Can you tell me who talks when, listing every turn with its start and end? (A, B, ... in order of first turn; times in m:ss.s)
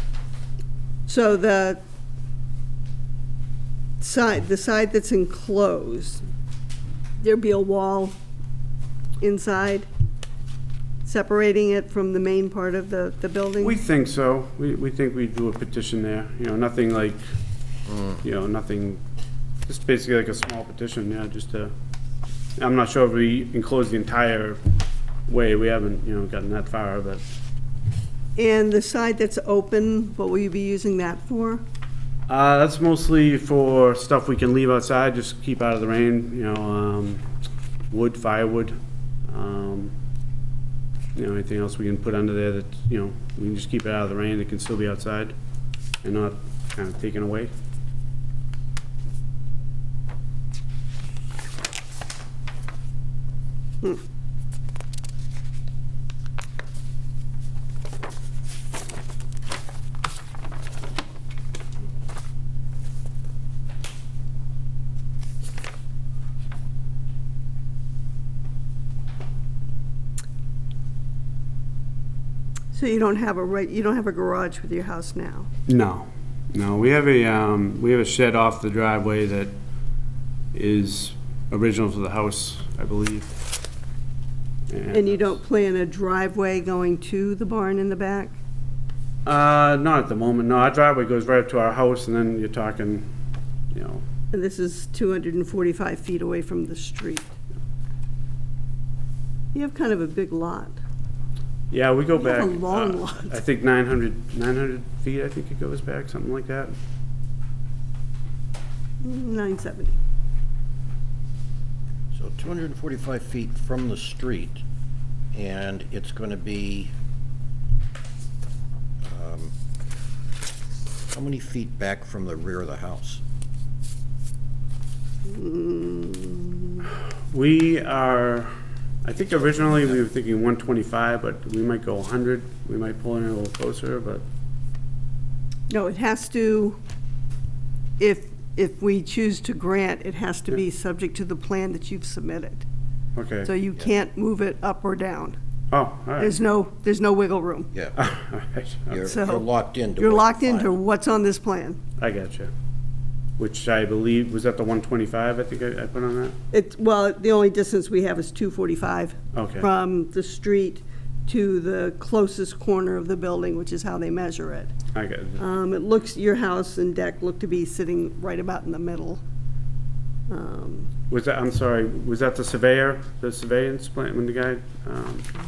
0:01.1-0:01.8 A
0:04.0-0:06.2 A
0:07.2-0:08.2 A
0:09.2-0:09.9 A
0:11.0-0:13.8 A
0:13.6-0:17.2 B
0:18.2-0:19.0 B
0:19.7-0:21.7 B
0:22.6-0:24.6 B
0:25.3-0:27.2 B
0:28.4-0:31.6 A
0:32.3-0:37.2 B
0:37.9-0:38.8 B
0:39.3-0:39.9 B
0:41.2-0:45.3 B
0:46.0-0:47.5 B
1:12.7-1:15.5 A
1:15.7-1:19.5 B
1:20.5-1:23.3 B
1:24.7-1:25.4 B
1:24.9-1:28.4 A
1:29.2-1:33.1 B
1:33.7-1:34.0 B
1:34.3-1:37.3 A
1:39.5-1:40.8 A
1:41.7-1:46.7 B
1:42.2-1:43.4 A
1:49.0-1:50.0 A
1:52.1-1:54.6 C
1:55.3-1:56.9 C
1:59.0-1:59.5 C
2:01.1-2:03.2 C
2:05.2-2:06.8 A
2:07.3-2:14.2 B
2:09.3-2:10.0 C
2:15.7-2:16.8 A
2:18.0-2:22.6 A
2:23.2-2:23.5 B
2:23.4-2:25.4 A
2:25.7-2:26.3 B
2:26.2-2:27.7 A
2:28.0-2:29.0 B
2:28.9-2:30.8 C
2:29.0-2:29.4 A
2:30.0-2:31.8 A
2:32.0-2:32.5 B
2:33.4-2:36.4 B
2:36.5-2:44.7 A
2:39.3-2:39.7 B
2:44.9-2:45.4 B
2:45.4-2:49.2 A
2:50.3-2:50.9 A
2:51.1-2:55.3 B